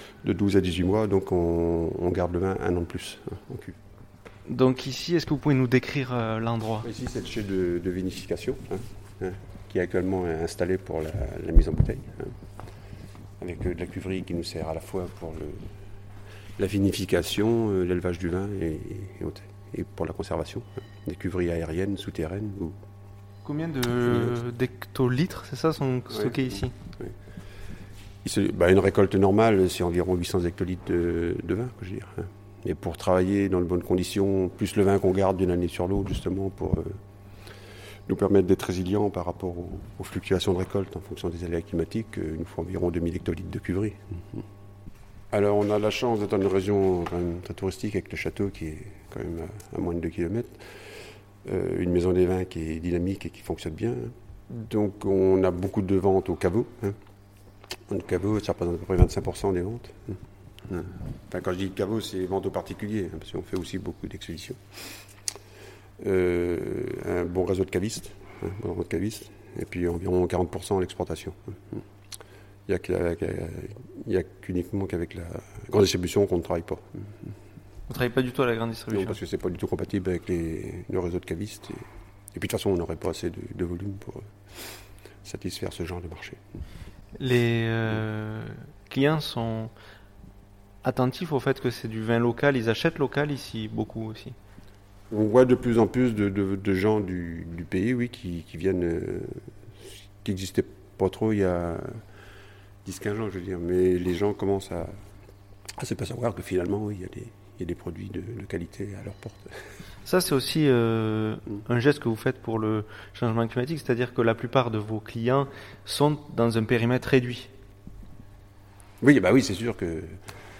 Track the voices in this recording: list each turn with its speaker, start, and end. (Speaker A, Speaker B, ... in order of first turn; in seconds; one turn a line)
Speaker A: 0.2-3.7
Speaker B: 4.5-6.9
Speaker A: 6.8-12.3
Speaker A: 13.4-15.7
Speaker A: 16.6-22.7
Speaker B: 23.4-26.7
Speaker A: 24.0-24.4
Speaker A: 26.1-27.1
Speaker A: 28.2-37.0
Speaker A: 38.1-44.4
Speaker A: 45.3-50.6
Speaker A: 51.4-57.0
Speaker A: 57.9-64.6
Speaker A: 66.0-71.8
Speaker A: 72.7-77.1
Speaker B: 77.9-79.2
Speaker A: 78.9-84.3
Speaker A: 85.2-86.4
Speaker B: 87.2-89.7
Speaker B: 90.8-94.3
Speaker A: 95.1-99.4
Speaker A: 100.2-102.0
Speaker A: 102.8-104.9
Speaker A: 105.8-109.5
Speaker B: 110.0-117.5
Speaker A: 119.0-120.2